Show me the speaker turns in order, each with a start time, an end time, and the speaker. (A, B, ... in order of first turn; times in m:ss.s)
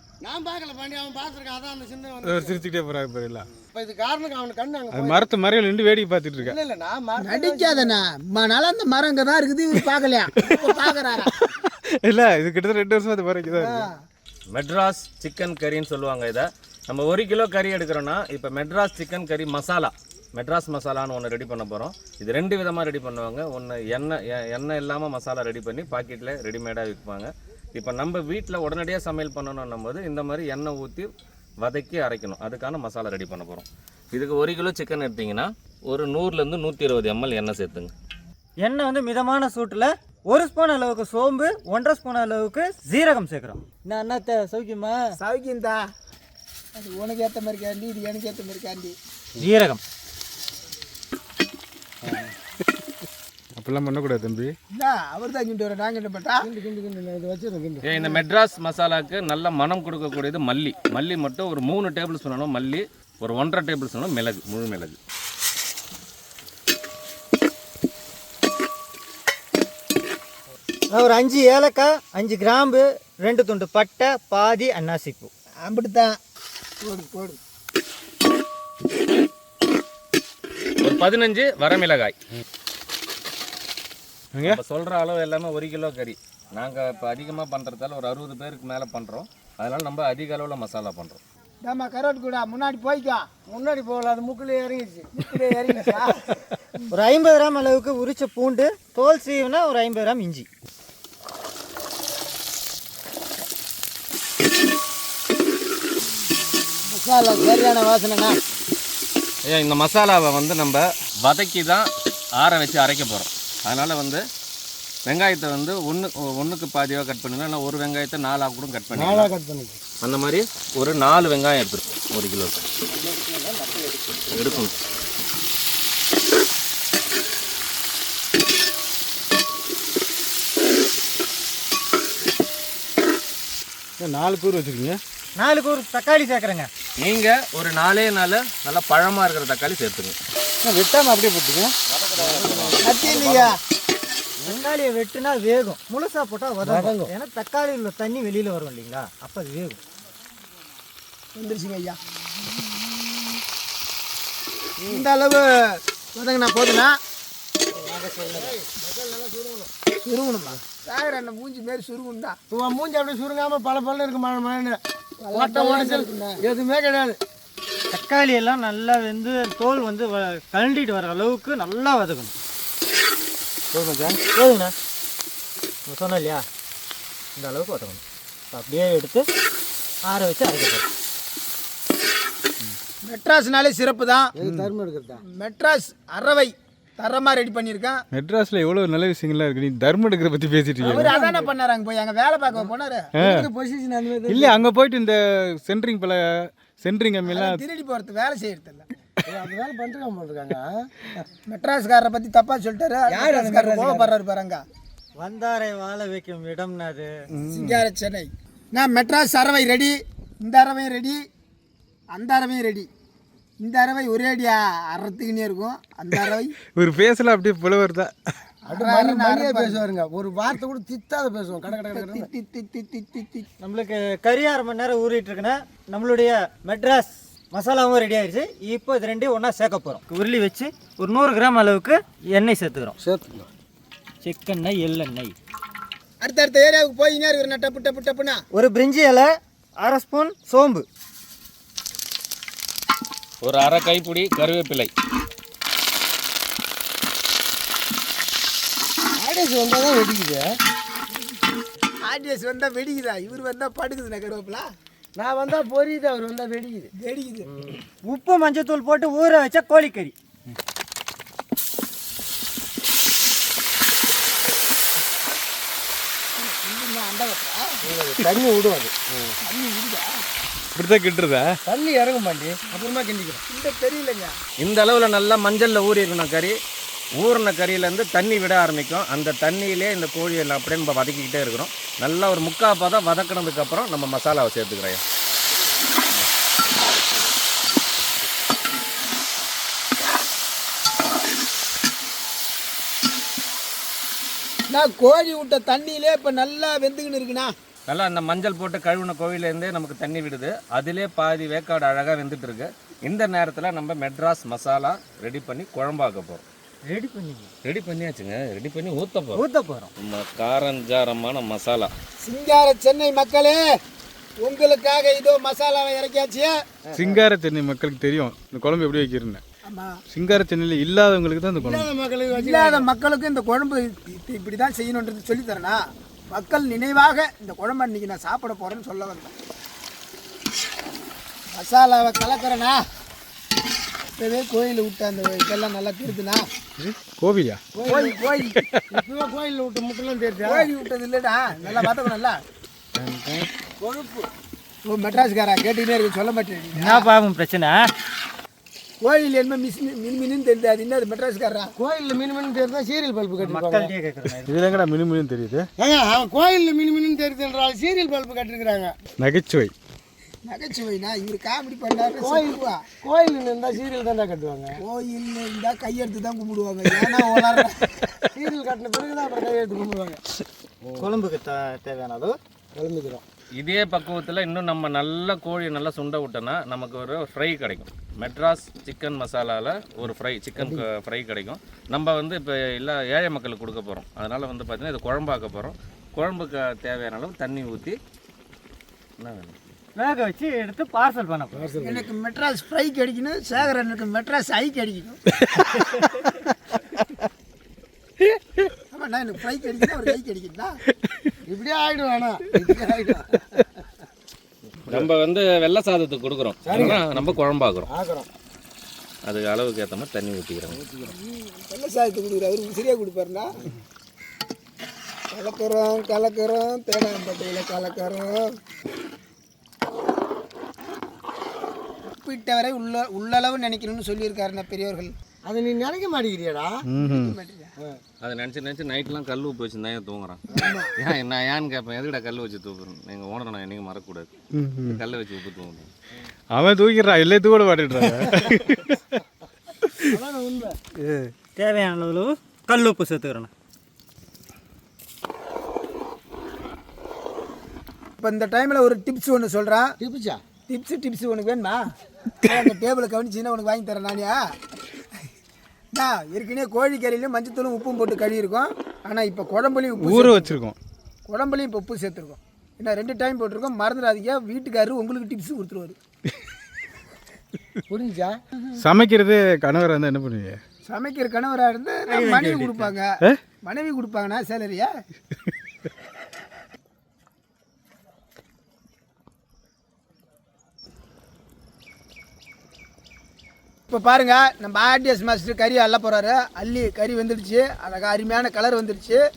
0:00.2-0:02.6 A
0:02.2-0:03.5 B
0:03.7-0:05.2 A
0:04.9-0:06.6 B
0:06.4-0:08.0 A
0:07.2-0:11.3 C
0:10.4-0:13.9 B
0:13.5-0:13.9 A
0:14.5-0:31.1 D
0:31.6-0:37.9 D
0:38.6-0:45.2 E
0:45.2-0:45.8 C
0:46.8-0:49.0 C
0:49.4-0:49.8 E
0:53.6-0:54.6 B
0:54.7-0:56.4 C
0:56.4-0:57.8 A
0:57.8-1:05.0 D
0:57.9-0:58.2 C
1:10.9-1:15.3 E
1:15.6-1:16.1 C
1:16.8-1:17.4 C
1:20.8-1:22.2 D
1:24.4-1:24.6 B
1:24.4-1:31.2 D
1:31.6-1:33.3 C
1:33.5-1:36.0 A
1:35.2-1:36.2 C
1:36.9-1:40.5 E
1:46.9-1:48.4 C
1:49.5-1:54.2 D
1:55.1-1:59.3 D
1:59.0-1:59.8 A
2:00.0-2:02.6 D
2:02.9-2:04.6 A
2:04.3-2:04.7 D
2:14.0-2:15.0 B
2:15.4-2:16.7 E
2:17.0-2:20.2 D
2:20.6-2:21.8 B
2:22.0-2:22.8 A
2:22.1-2:23.6 D
2:22.8-2:23.6 C
2:24.4-2:29.8 E
2:26.6-2:27.1 A
2:31.4-2:32.0 C
2:34.9-2:37.0 C
2:37.8-2:39.7 A
2:40.0-2:42.4 C
2:42.5-2:44.8 A
2:45.2-2:46.4 C
2:45.3-2:47.2 A
2:47.9-2:52.3 E
2:53.7-2:54.2 A
2:54.2-2:54.7 E
2:55.9-2:56.4 E
2:57.4-2:58.0 E
2:58.5-2:59.3 E
3:00.1-3:00.8 E
3:03.1-3:04.3 C
3:04.4-3:05.2 A
3:04.4-3:04.7 B
3:05.4-3:08.0 C
3:08.1-3:11.1 B
3:10.8-3:11.5 A
3:10.8-3:13.1 C
3:13.2-3:13.5 B
3:13.2-3:14.6 A
3:14.3-3:17.6 B
3:17.3-3:18.9 C
3:19.2-3:20.7 A
3:21.5-3:24.6 C
3:23.1-3:24.1 A
3:25.2-3:27.1 E
3:27.3-3:27.8 B
3:27.5-3:31.2 C
3:32.1-3:32.9 C
3:33.6-3:36.5 C
3:36.1-3:38.2 B
3:38.7-3:42.3 A
3:38.7-3:39.8 C
3:41.8-3:43.5 C
3:43.6-3:53.0 E
3:53.0-3:53.5 A
3:54.2-3:55.4 E
3:56.2-3:58.4 C
3:58.5-4:00.8 E
4:03.4-4:04.9 D
4:09.2-4:10.5 A
4:12.0-4:14.7 C
4:15.2-4:16.9 A
4:17.0-4:17.5 C
4:18.0-4:20.1 E
4:26.4-4:27.6 C
4:27.8-4:29.4 A
4:29.4-4:30.1 C
4:30.8-4:31.6 B
4:31.6-4:33.4 A
4:33.5-4:34.4 C
4:34.6-4:36.6 D
4:37.2-4:45.0 D
4:54.7-4:57.5 C
4:57.9-5:06.4 D
5:06.9-5:07.5 E
5:07.6-5:09.4 D
5:09.4-5:09.9 E
5:10.0-5:11.9 D
5:12.2-5:13.6 C
5:14.4-5:16.5 C
5:17.0-5:19.4 B
5:19.6-5:19.9 C
5:20.1-5:21.9 B
5:21.6-5:22.9 A
5:22.3-5:25.8 C
5:26.3-5:29.3 C
5:31.5-5:32.8 C
5:34.2-5:36.4 C
5:36.8-5:37.6 B
5:37.7-5:38.2 A
5:37.9-5:38.6 C
5:38.4-5:38.8 B
5:38.9-5:40.7 A
5:40.4-5:42.4 C
5:43.0-5:43.5 B
5:43.8-5:44.3 A
5:44.9-5:47.1 C
5:46.7-5:47.8 E
5:49.0-5:51.7 C
5:51.8-5:53.9 A
5:53.4-5:54.6 E
5:54.4-5:55.7 B
5:55.8-5:58.9 A
5:59.2-5:59.7 B
6:00.5-6:02.8 C
6:02.2-6:04.8 A
6:04.8-6:08.1 C
6:08.4-6:10.2 A
6:10.8-6:11.1 A
6:11.0-6:12.4 E
6:12.8-6:13.2 A
6:13.6-6:28.0 D
6:29.2-6:29.6 D
6:30.0-6:31.6 E
6:31.5-6:32.1 A
6:31.8-6:35.2 C
6:35.5-6:35.9 B
6:38.9-6:40.8 C
6:41.0-6:41.3 B
6:41.5-6:43.4 A
6:44.9-6:47.9 D
6:46.6-6:47.3 A
6:47.9-6:48.3 A
6:49.2-6:50.8 D
6:50.7-6:51.1 A
6:51.1-6:53.5 C
6:55.3-6:58.5 C
7:02.1-7:05.1 C
7:05.5-7:06.8 A
7:06.9-7:07.4 B
7:07.0-7:07.7 C
7:08.2-7:10.4 D
7:10.5-7:10.9 C
7:11.0-7:14.3 D
7:14.5-7:15.0 B
7:14.9-7:15.9 D
7:16.6-7:19.2 B
7:20.1-7:20.8 A
7:21.0-7:23.5 E
7:28.2-7:29.9 C
7:30.0-7:30.4 A
7:30.7-7:31.8 C
7:32.4-7:34.4 C
7:35.9-7:40.5 C
7:40.0-7:40.8 B
7:41.3-7:46.0 C
7:47.9-7:48.4 A
7:48.8-7:50.6 B
7:50.9-7:53.1 C
7:52.1-7:52.9 E
7:53.6-7:54.9 C
8:03.9-8:09.2 C